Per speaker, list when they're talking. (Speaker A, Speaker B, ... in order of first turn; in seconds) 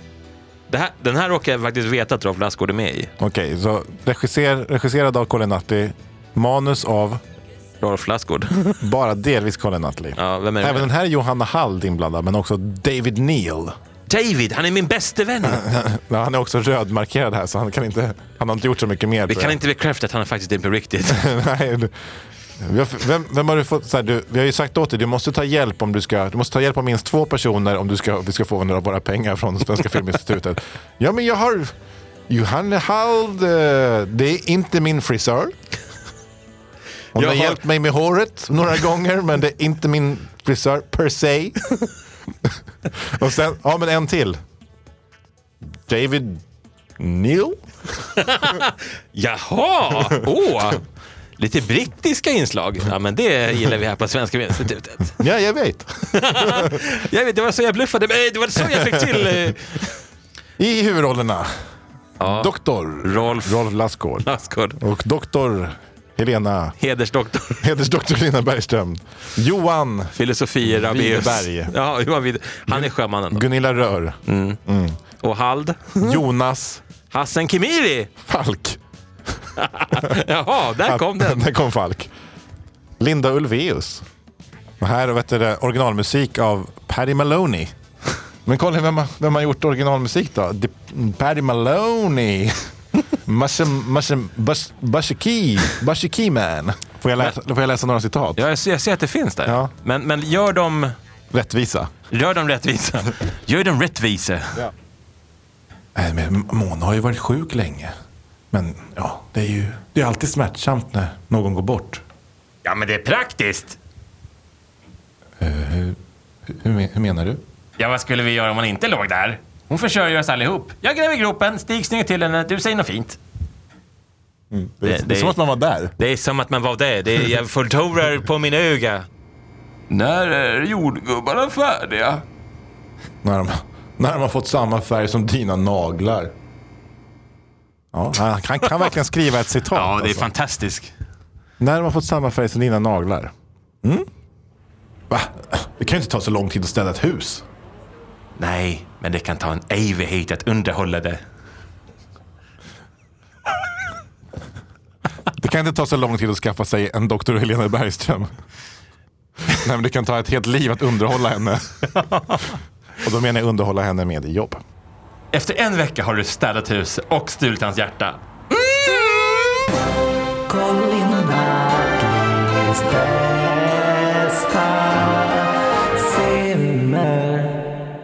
Speaker A: 0.7-3.1, 7.8-8.8, 10.2-10.9, 14.1-15.6, 19.3-21.3, 37.1-37.6, 48.1-50.8, 51.4-55.2, 56.1-59.9, 62.2-62.5, 63.0-63.6, 64.2-64.8, 66.8-67.6, 70.2-73.4, 74.2-74.6, 75.2-76.2, 77.1-78.1, 79.6-81.4, 98.4-100.9, 102.1-104.7, 112.6-113.8, 117.8-123.2, 124.8-125.4, 126.0-129.1, 129.9-132.2, 139.7-140.9, 148.4-151.2, 165.3-168.2
Speaker B: 3.2-7.2, 8.8-13.8, 15.4-19.6, 21.1-21.9, 22.6-31.7, 32.3-35.5, 37.1-41.9, 42.5-44.4, 45.8-46.4, 47.0-48.1, 55.2-56.8, 58.7-59.2, 60.6-61.5, 62.2-64.3, 64.8-66.8, 67.6-71.7, 72.7-75.0, 76.0-76.8, 78.2-78.8, 80.8-82.1, 83.0-84.0, 84.8-87.7, 88.4-92.6, 93.2-98.4, 99.5-99.7, 101.3-101.9, 105.9-107.9, 108.5-112.0, 115.4-117.4, 124.5-125.9, 133.2-136.3, 137.9-140.3, 141.6-144.1, 145.1-147.4, 155.3-158.3, 159.5-162.0, 163.0-164.6
Speaker C: 170.5-175.3, 176.2-177.5